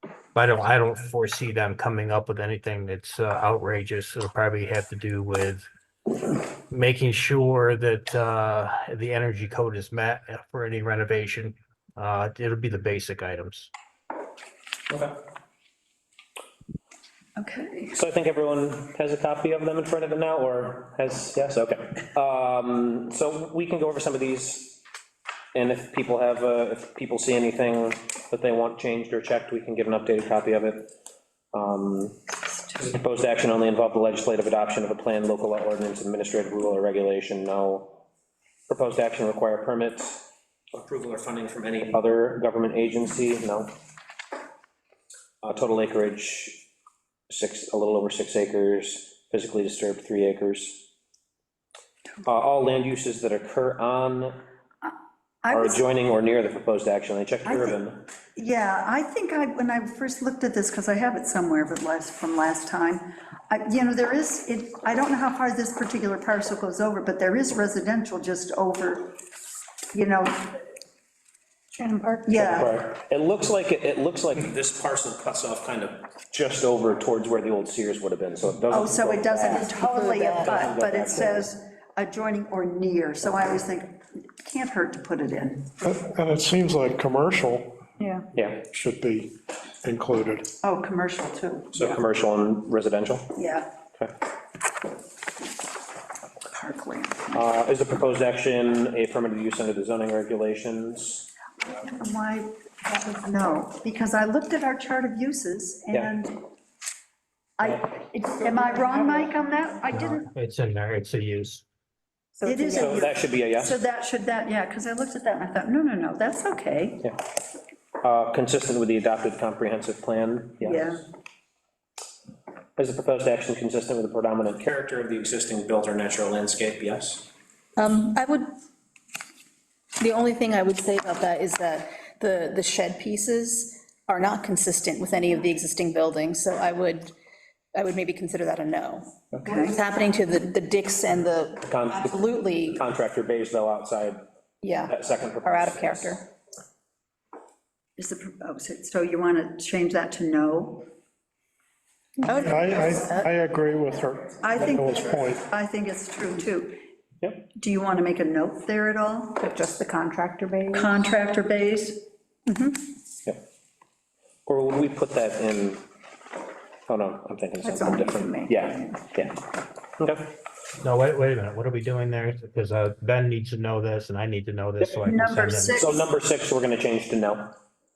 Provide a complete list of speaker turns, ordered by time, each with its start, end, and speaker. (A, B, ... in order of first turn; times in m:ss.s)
0:00.3-0:05.7 A
0:06.7-0:13.7 A
0:14.9-0:15.2 B
0:17.4-0:17.9 C
0:17.9-0:24.8 B
0:25.5-0:30.9 B
0:31.5-0:32.2 B
0:32.8-0:38.0 B
0:38.7-0:43.7 B
0:45.4-0:46.7 B
0:47.3-0:50.9 B
0:52.2-0:54.4 B
0:54.8-0:55.8 C
0:55.5-0:58.0 B
0:57.4-0:57.8 C
0:58.4-1:09.1 C
1:09.9-1:10.6 C
1:11.7-1:12.4 D
1:12.3-1:12.8 C
1:12.3-1:19.7 B
1:18.7-1:25.7 C
1:19.4-1:20.7 D
1:20.4-1:21.5 B
1:25.8-1:27.8 E
1:28.0-1:28.3 D
1:28.3-1:28.6 B
1:28.7-1:30.5 E
1:30.6-1:32.0 C
1:31.7-1:33.4 B
1:33.4-1:33.7 C
1:36.4-1:37.4 C
1:37.3-1:41.3 B
1:41.6-1:46.4 C
1:47.6-1:50.3 C
1:49.9-1:51.6 A
1:52.4-1:53.1 D
1:52.4-1:57.0 C
1:52.7-1:53.7 B
1:58.0-2:00.9 B
2:00.6-2:01.0 C
2:02.8-2:07.3 B
2:07.8-2:08.5 D
2:10.0-2:17.1 D
2:17.7-2:22.8 D
2:19.4-2:19.8 C
2:21.6-2:24.2 B
2:24.6-2:26.2 D
2:24.9-2:26.2 B
2:28.0-2:30.9 C
2:32.2-2:33.3 D
2:32.3-2:35.5 E
2:34.4-2:36.8 C
2:37.2-2:37.5 B
2:37.5-2:39.4 C
2:39.4-2:41.0 D
2:40.7-2:42.0 C
2:42.5-2:42.8 D
2:44.4-2:45.8 B
2:46.9-2:49.4 B
2:47.6-2:49.0 D
2:50.0-2:50.4 B
2:50.8-2:55.8 A
2:54.8-2:55.1 B
2:55.0-2:56.0 C
2:55.7-2:57.6 B